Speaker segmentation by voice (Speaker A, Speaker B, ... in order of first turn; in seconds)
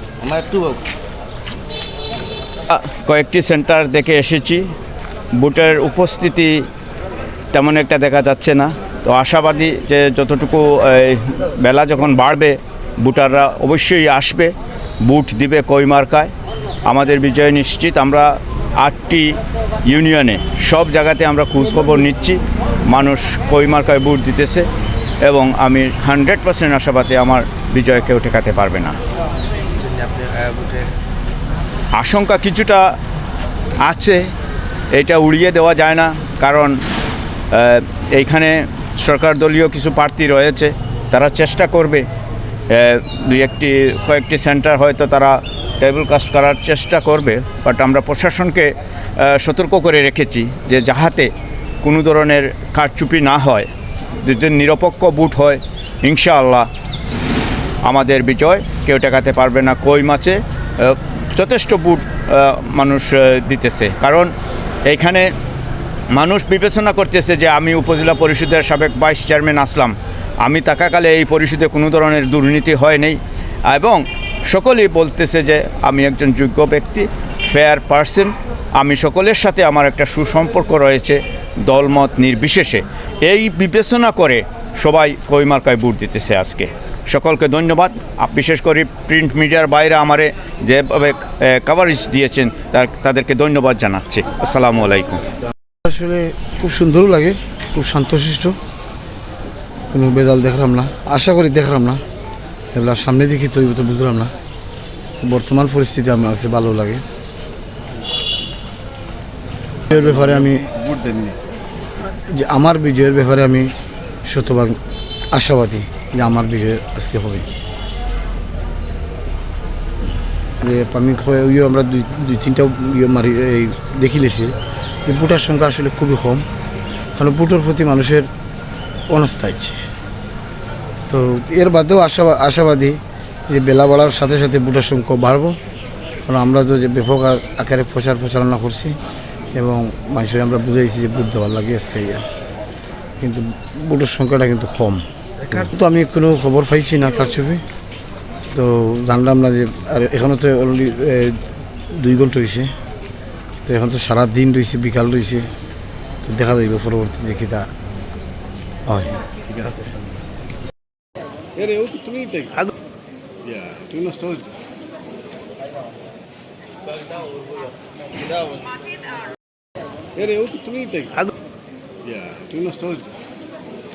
Speaker A: 0.2-0.8, 29.8-30.9, 110.8-111.4, 161.6-162.7, 163.4-164.5, 166.9-168.7, 170.1-171.3, 172.0-173.1
Speaker B: 2.7-4.7, 5.3-6.6, 7.5-16.3, 16.9-19.4, 19.9-24.7, 25.2-29.0, 31.9-32.8, 33.8-34.3, 34.9-36.8, 37.5-42.0, 42.7-51.3, 51.8-56.7, 57.8-64.3, 64.8-65.3, 66.1-95.2
Speaker C: 95.8-98.5, 99.9-102.0, 102.7-104.3, 105.2-107.0, 109.9-110.7, 112.3-113.7, 114.3-114.8, 115.3-117.4, 120.6-126.4, 127.2-128.3, 129.1-129.8, 131.1-133.0, 133.5-135.6, 136.3-138.9, 139.5-142.2, 143.2-147.6, 148.5-151.4, 151.9-152.7, 153.7-155.4, 156.2-157.7, 158.9-159.1